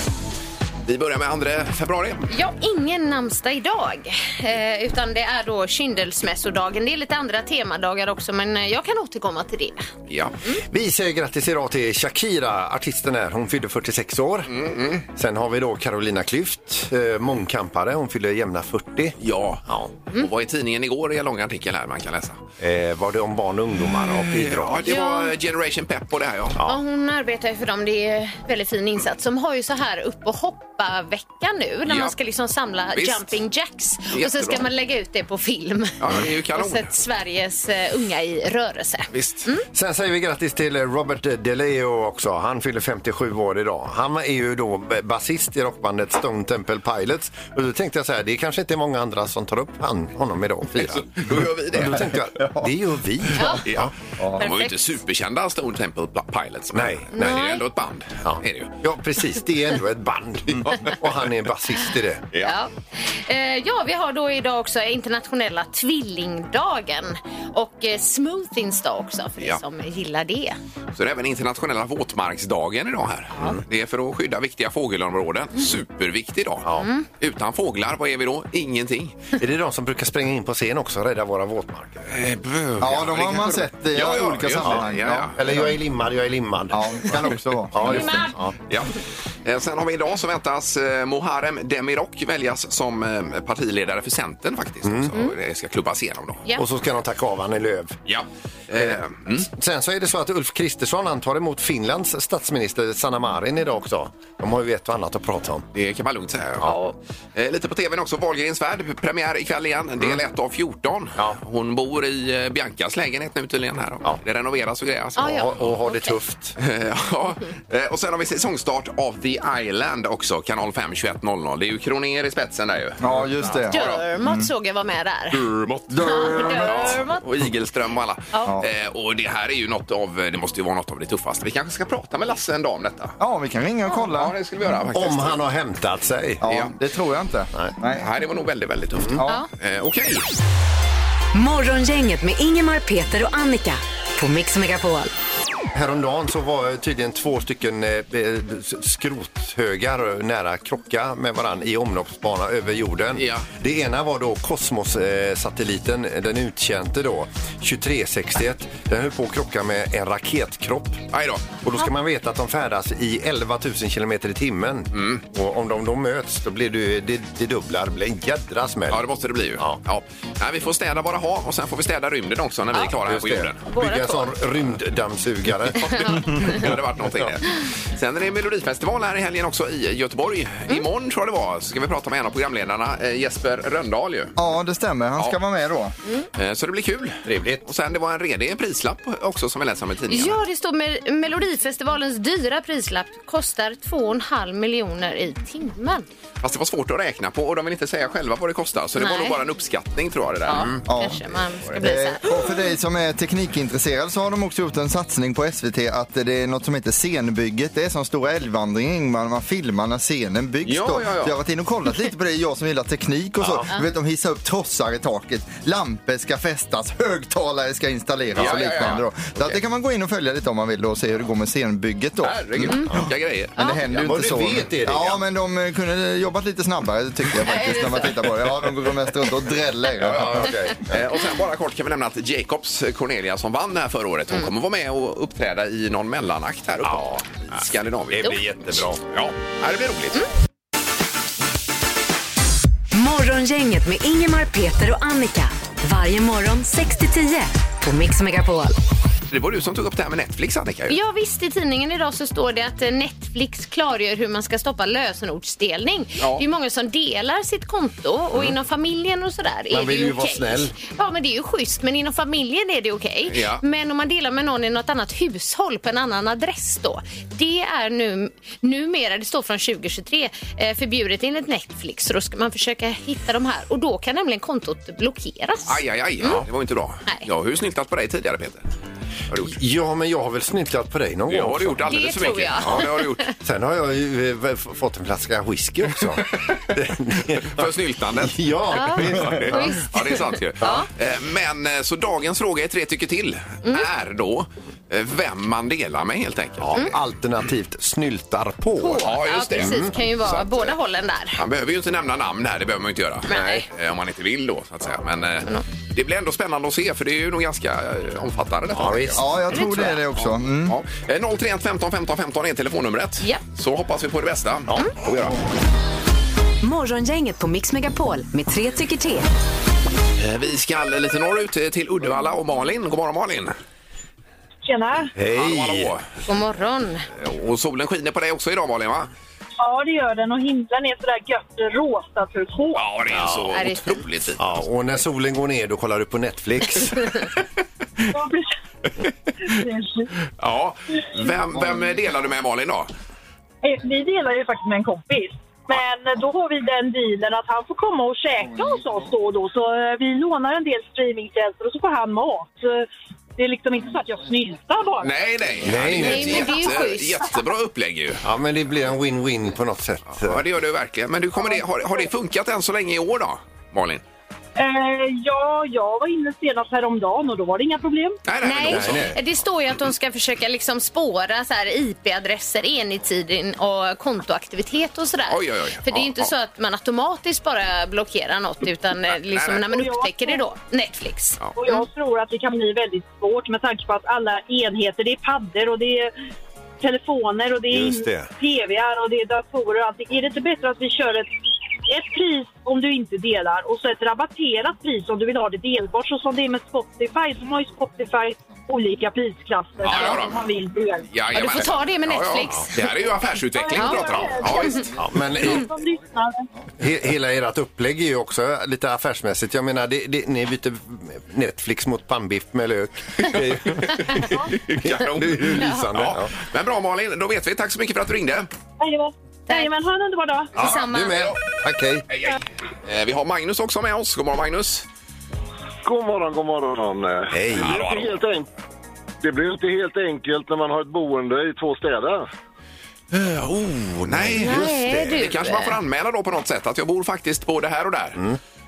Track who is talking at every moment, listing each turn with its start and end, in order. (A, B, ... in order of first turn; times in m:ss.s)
0:00.8-0:02.3 A
0:02.3-0:09.9 B
0:10.1-0:10.4 A
0:10.7-0:14.5 C
0:14.5-0:15.0 A
0:15.1-0:19.2 C
0:19.2-0:22.4 A
0:22.6-0:24.9 C
0:24.0-0:26.6 A
0:24.9-0:25.3 B
0:26.6-0:39.6 B
0:31.9-0:32.1 A
0:33.0-0:33.3 A
0:34.1-0:34.7 A
0:36.0-0:36.9 A
0:39.1-0:39.5 A
0:39.7-0:53.9 C
0:50.8-0:52.2 A
0:53.4-0:53.6 B
0:53.6-0:58.8 A
0:54.4-0:54.8 B
0:56.7-0:57.5 C
0:57.2-0:57.6 B
0:58.2-1:02.2 C
1:00.6-1:01.0 A
1:02.4-1:10.6 B
1:11.0-1:19.3 A
1:13.4-1:13.6 C
1:16.8-1:17.1 B
1:19.4-1:22.1 C
1:22.1-1:25.4 A
1:22.8-1:25.7 D
1:24.6-1:28.6 C
1:26.7-1:28.3 D
1:27.8-1:28.4 B
1:28.7-1:36.4 A
1:34.8-1:35.1 C
1:36.6-1:38.0 C
1:38.1-1:39.5 A
1:38.7-1:45.7 C
1:45.7-1:46.8 A
1:46.7-1:46.9 B
1:47.4-1:55.8 A
1:55.2-1:56.2 B
1:55.2-1:56.6 C
1:56.6-2:04.0 A
2:03.0-2:04.5 D
2:03.7-2:05.4 B
2:05.3-2:13.2 A
2:05.9-2:07.0 D
2:06.0-2:07.2 B
2:13.2-2:14.4 D
2:14.1-2:15.4 A
2:14.9-2:16.4 C
2:16.4-2:18.1 D
2:16.4-2:16.8 A
2:17.9-2:20.3 A
2:19.0-2:19.2 C
2:19.1-2:19.5 D
2:21.3-2:25.1 E
2:25.7-2:41.0 C
2:33.2-2:33.5 A
2:41.1-2:41.6 A
2:41.6-2:49.1 C
2:44.9-2:45.2 A
2:48.9-2:53.6 A
2:53.0-2:57.3 C
2:53.7-2:54.3 B
2:55.8-3:04.4 A
3:04.4-3:05.9 D
3:06.4-3:10.4 A
3:07.3-3:07.6 C
3:10.1-3:16.0 B
3:16.4-3:20.8 A
3:19.0-3:19.4 B
3:20.5-3:22.6 B
3:20.8-3:21.2 D
3:21.8-3:43.0 D
3:30.6-3:31.4 A
3:38.4-3:39.5 A
3:42.2-3:44.1 A
3:43.6-3:50.5 D
3:44.0-3:45.2 C
3:47.4-3:48.2 B
3:50.0-4:00.2 A
3:50.0-3:51.0 C
3:56.8-3:59.0 C
4:02.9-4:08.8 E
4:09.3-4:11.0 A
4:10.9-4:36.4 B
4:16.2-4:16.4 A
4:19.7-4:20.7 C
4:23.3-4:23.6 A
4:35.7-4:38.6 A
4:39.3-4:39.6 A
4:39.4-4:41.8 C
4:41.3-4:43.3 A
4:41.9-4:43.3 B
4:43.4-4:49.8 C
4:47.4-4:56.8 A
4:48.7-4:50.9 B
4:50.6-4:50.9 C
4:56.6-4:59.9 C
4:58.8-5:01.4 B
4:59.0-5:00.8 A
5:01.4-5:09.2 A
5:03.3-5:03.7 B
5:08.7-5:09.9 C
5:09.1-5:10.8 D
5:09.5-5:09.9 B
5:10.2-5:15.4 A
5:16.6-5:19.3 E
5:20.2-5:23.6 A
5:24.6-5:25.1 F
5:25.2-5:26.0 C
5:25.3-5:26.2 A
5:26.3-5:27.1 B
5:27.2-5:29.1 A
5:29.6-5:32.8 F
5:32.7-5:34.4 A
5:33.1-5:33.5 C
5:33.5-5:34.0 B
5:34.4-5:37.3 C
5:38.1-5:38.5 F
5:39.5-5:40.1 F
5:40.4-5:42.9 A
5:43.6-5:55.1 F
5:55.0-5:58.2 A
5:55.6-5:56.6 C
5:56.0-5:57.4 B
5:58.2-6:00.4 C
6:00.2-6:04.0 A
6:04.6-6:08.2 F
6:08.3-6:09.2 A
6:08.4-6:21.8 B
6:08.7-6:09.2 C
6:15.3-6:16.3 A
6:19.2-6:19.6 A
6:19.7-6:20.4 F
6:21.6-6:26.1 F
6:26.8-6:31.3 F
6:27.7-6:28.3 C
6:31.9-6:41.1 F
6:39.8-6:40.5 A
6:41.1-6:44.9 A
6:41.3-6:42.8 B
6:43.5-6:46.5 F
6:43.8-6:44.9 B
6:45.0-6:45.7 C
6:46.8-6:56.3 C
6:53.2-6:58.5 A
6:55.6-6:55.9 B
6:58.8-7:00.5 F
6:59.5-6:59.8 B
7:00.6-7:01.3 B
7:00.6-7:02.1 C
7:00.7-7:01.4 A
7:02.1-7:04.9 A
7:05.8-7:08.5 G
7:07.3-7:07.8 C
7:07.5-7:08.2 A
7:09.2-7:12.3 G
7:13.1-7:18.2 A
7:14.1-7:15.3 C
7:14.4-7:15.8 B